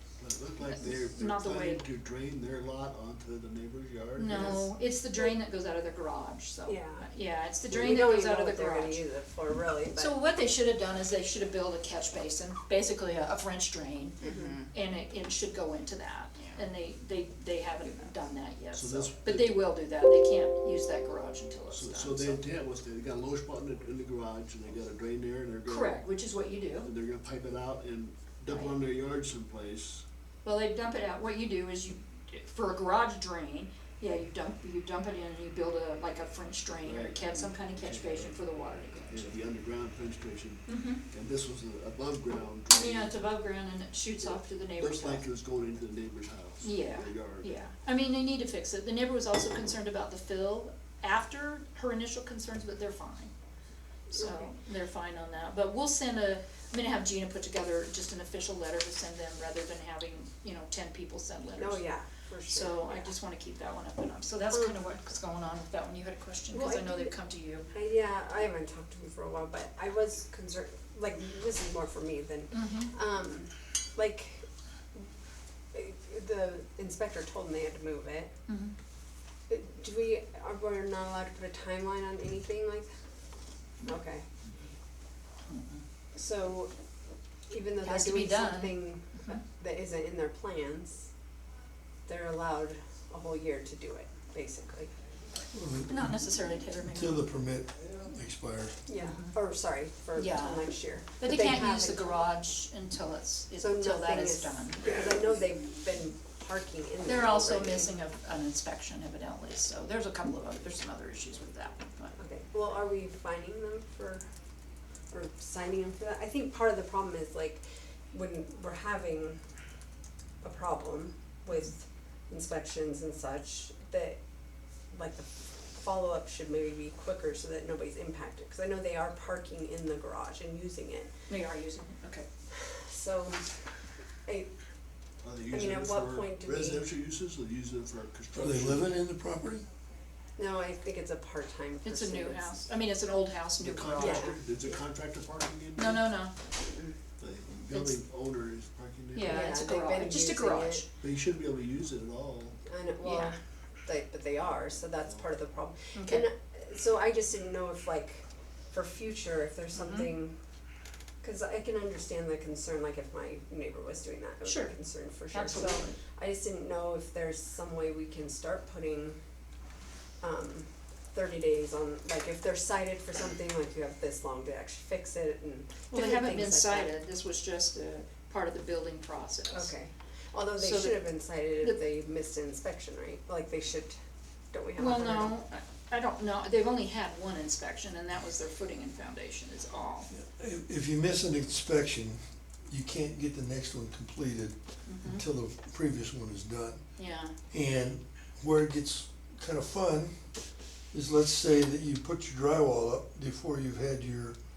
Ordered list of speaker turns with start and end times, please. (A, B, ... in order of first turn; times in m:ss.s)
0:00.2-0:04.7 A
0:00.6-0:01.8 B
0:04.2-0:09.0 B
0:04.3-0:04.6 C
0:06.6-0:07.1 C
0:07.7-0:10.1 C
0:09.9-0:22.4 B
0:14.2-0:14.5 C
0:18.7-0:19.6 A
0:21.7-0:26.0 A
0:25.6-0:26.9 B
0:26.8-0:30.0 A
0:28.5-0:28.8 B
0:30.4-0:39.3 B
0:36.8-0:38.4 A
0:39.1-0:43.2 A
0:40.7-0:41.0 B
0:42.7-0:45.2 B
0:44.8-0:47.5 A
0:46.6-0:53.3 B
0:54.1-1:01.8 B
0:54.1-0:54.5 C
1:01.6-1:03.1 C
1:02.5-1:07.7 B
1:04.5-1:04.8 C
1:06.5-1:07.1 C
1:07.7-1:15.0 C
1:12.5-1:12.9 B
1:15.7-1:18.3 C
1:18.5-1:18.7 B
1:19.5-1:22.9 C
1:23.8-1:24.2 C
1:25.5-1:25.8 B
1:26.1-1:26.7 C
1:27.5-1:31.1 C
1:27.8-1:29.4 B
1:32.1-1:34.9 C
1:35.5-1:36.1 D
1:35.9-1:37.2 B
1:36.8-1:38.8 D
1:38.9-1:42.2 C
1:39.0-1:39.3 B
1:40.1-1:44.9 B
1:43.6-1:47.9 C
1:47.0-1:52.2 B
1:52.2-1:54.3 C
1:55.1-1:59.4 C
2:00.4-2:04.2 C
2:04.9-2:11.1 C
2:11.3-2:12.3 B
2:12.5-2:13.5 C
2:14.2-2:14.5 C
2:15.2-2:18.9 A
2:15.5-2:16.9 C
2:18.3-2:19.6 D
2:20.4-2:22.6 C
2:21.8-2:24.3 B
2:23.6-2:26.1 A
2:24.0-2:24.6 C
2:25.8-2:26.4 B
2:27.2-2:29.5 A
2:29.1-2:30.9 B
2:29.2-2:30.8 C
2:31.0-2:32.6 A
2:32.7-2:40.4 C
2:33.0-2:33.3 B
2:35.9-2:36.3 B
2:39.7-2:40.1 B
2:41.2-2:49.2 C
2:44.4-2:44.8 B
2:45.3-2:46.0 B
2:50.2-2:56.9 C
2:55.9-2:59.7 B
2:59.5-3:04.0 C
3:00.6-3:01.8 B
3:04.5-3:05.4 C
3:04.8-3:10.1 B
3:10.1-3:16.8 D
3:14.8-3:15.2 B
3:17.0-3:17.3 B
3:17.5-3:20.2 D
3:20.9-3:24.4 D